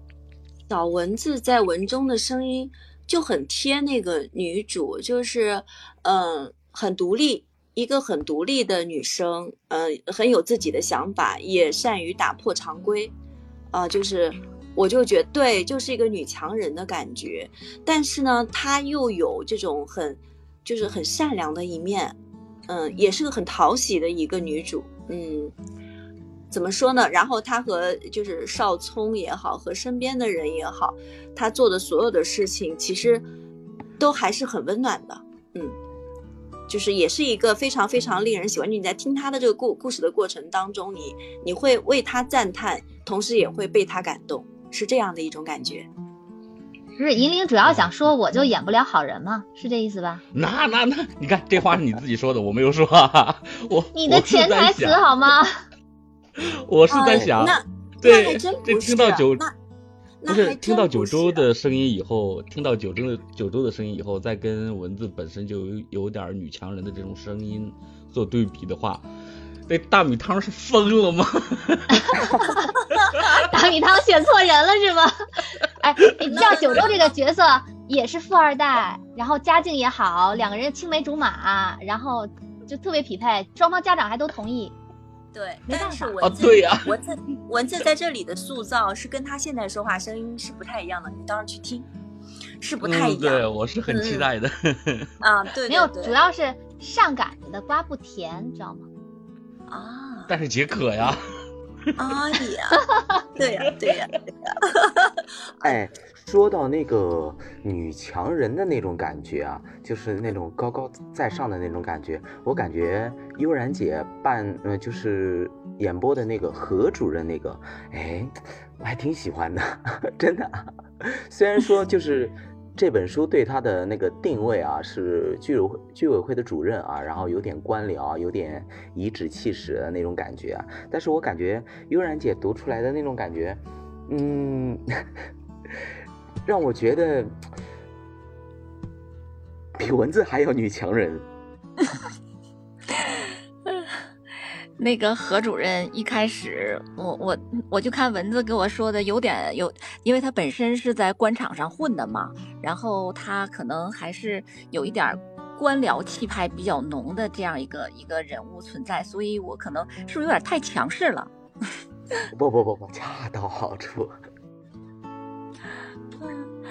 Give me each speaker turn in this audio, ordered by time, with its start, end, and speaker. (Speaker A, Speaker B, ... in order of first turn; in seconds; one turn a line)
Speaker A: 0.7-13.1
Speaker A: 13.7-22.2
Speaker A: 22.7-25.5
Speaker A: 26.5-33.2
Speaker A: 34.0-35.8
Speaker A: 36.7-45.9
Speaker B: 47.0-50.2
Speaker C: 50.3-55.0
Speaker B: 53.9-55.5
Speaker C: 56.4-59.5
Speaker A: 56.9-59.5
Speaker A: 60.2-61.5
Speaker C: 60.3-69.0
Speaker C: 69.7-72.4
Speaker B: 72.3-72.6
Speaker B: 73.3-75.1
Speaker B: 75.8-84.8
Speaker A: 76.3-77.1
Speaker A: 85.3-91.9
Speaker B: 85.7-86.2
Speaker C: 86.2-87.0
Speaker A: 92.6-94.3
Speaker C: 92.8-95.1
Speaker A: 95.2-96.2
Speaker B: 95.7-98.9
Speaker A: 99.7-100.3
Speaker C: 100.3-101.2
Speaker A: 102.0-102.8
Speaker A: 103.4-105.7
Speaker D: 105.6-134.8
Speaker D: 136.5-137.4
Speaker D: 139.8-141.3
Speaker E: 144.8-161.3
Speaker D: 162.3-164.2